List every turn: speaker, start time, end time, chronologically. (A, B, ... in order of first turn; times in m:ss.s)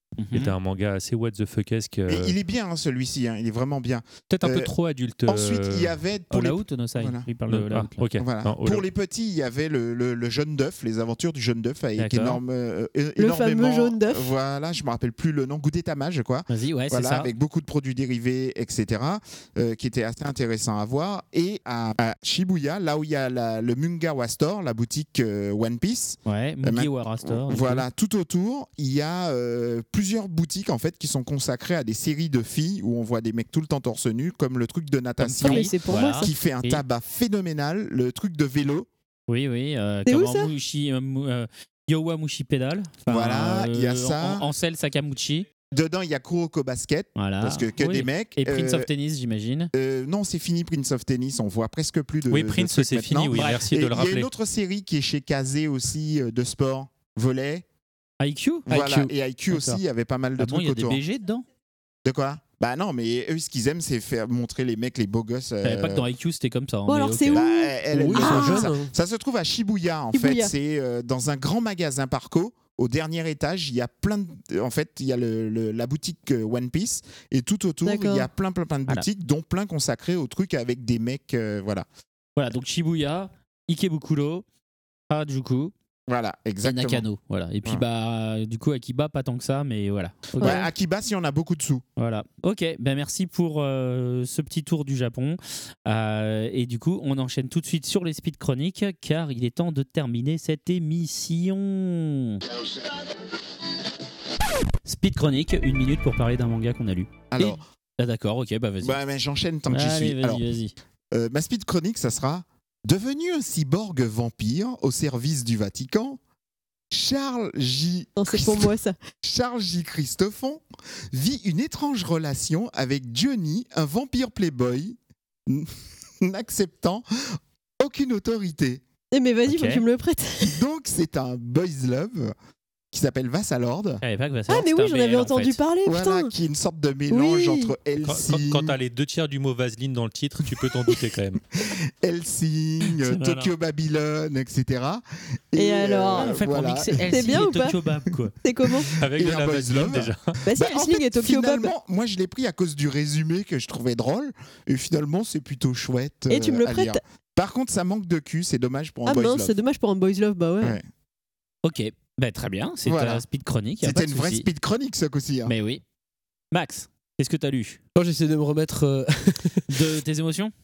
0:00.2-0:00.5 A
0:00.3-0:02.4 B
0:02.1-0:04.7 C
0:04.3-0:06.0 B
0:05.3-0:07.3 C
0:06.3-0:08.0 A
0:07.5-0:08.8 B
0:08.2-0:38.9 C
0:12.0-0:12.4 A
0:13.2-0:14.3 D
0:16.5-0:17.3 A
0:26.3-0:27.9 A
0:35.2-0:36.8 A
0:35.4-0:36.3 D
0:39.3-0:45.5 A
0:40.1-0:40.5 D
0:43.1-0:44.5 C
0:45.7-0:48.9 C
0:47.2-0:49.7 A
0:49.7-0:57.6 C
0:52.3-0:54.3 B
0:53.3-0:53.6 A
0:58.2-0:58.7 A
0:58.7-0:59.1 E
0:58.7-1:01.0 C
0:59.5-0:59.8 A
1:00.4-1:01.4 A
1:02.0-1:06.1 C
1:05.6-1:08.4 A
1:06.9-1:08.7 D
1:07.3-1:21.9 C
1:08.1-1:08.9 E
1:10.1-1:10.5 D
1:17.8-1:18.3 D
1:22.4-1:24.4 A
1:25.1-1:25.7 A
1:26.1-1:27.1 C
1:26.6-1:30.6 A
1:30.4-1:30.7 D
1:30.4-1:31.8 C
1:32.0-1:42.4 A
1:44.9-1:49.0 A
1:47.3-1:47.6 C
1:48.8-1:50.4 C
1:49.7-1:50.7 A
1:51.1-1:56.2 C
1:56.9-2:08.8 C
1:58.2-1:59.0 D
2:09.1-2:10.6 D
2:09.5-2:09.8 A
2:10.4-2:12.4 C
2:12.9-2:14.0 C
2:14.0-2:15.6 A
2:14.5-2:16.3 D
2:15.8-2:18.8 C
2:17.1-2:17.8 D
2:18.0-2:21.4 B
2:21.6-2:27.5 C
2:23.1-2:23.5 A
2:25.6-2:26.4 D
2:26.2-2:28.3 A
2:27.1-2:27.8 D
2:28.4-2:28.9 D
2:28.7-2:39.6 C
2:29.0-2:30.4 B
2:30.4-2:31.7 D
2:36.3-2:37.0 D
2:39.1-2:40.8 D
2:41.6-2:44.5 A
2:42.8-2:43.2 C
2:43.8-2:45.5 C
2:45.5-2:45.8 A
2:46.5-2:47.8 A
2:48.0-2:49.6 E
2:49.7-2:50.5 A